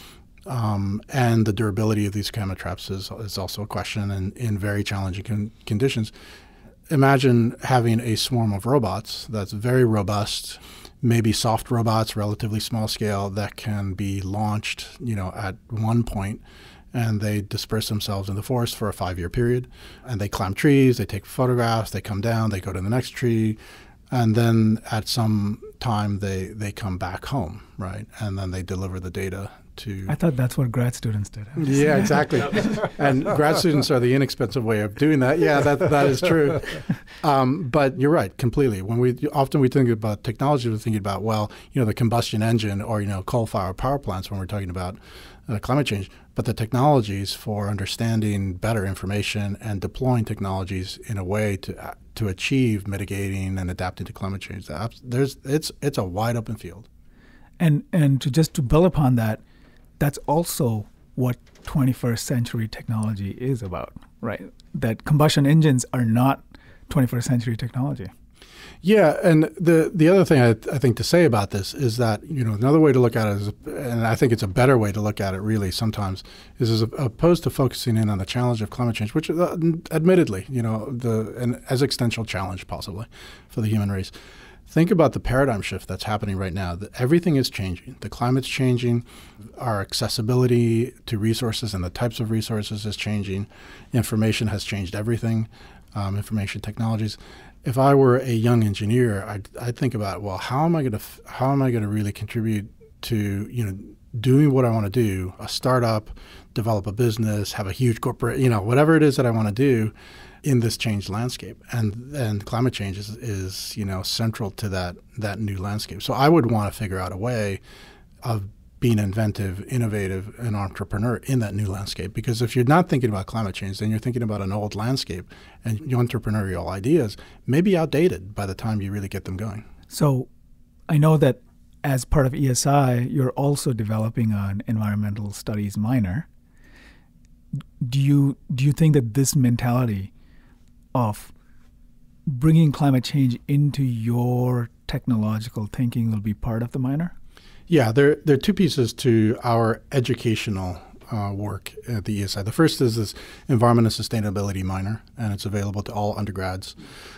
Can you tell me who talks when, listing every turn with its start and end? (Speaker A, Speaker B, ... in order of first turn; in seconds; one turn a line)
Speaker A: 0.5-6.1
Speaker A: 6.9-16.4
Speaker A: 16.9-23.6
Speaker A: 24.1-30.1
Speaker B: 30.1-32.2
Speaker A: 31.6-56.9
Speaker B: 57.6-59.4
Speaker B: 60.0-68.1
Speaker A: 68.8-84.1
Speaker A: 84.7-117.6
Speaker A: 118.2-129.7
Speaker B: 129.9-130.3
Speaker B: 130.9-136.3
Speaker B: 137.8-140.1
Speaker B: 140.9-141.3
Speaker B: 142.3-147.1
Speaker A: 147.7-156.8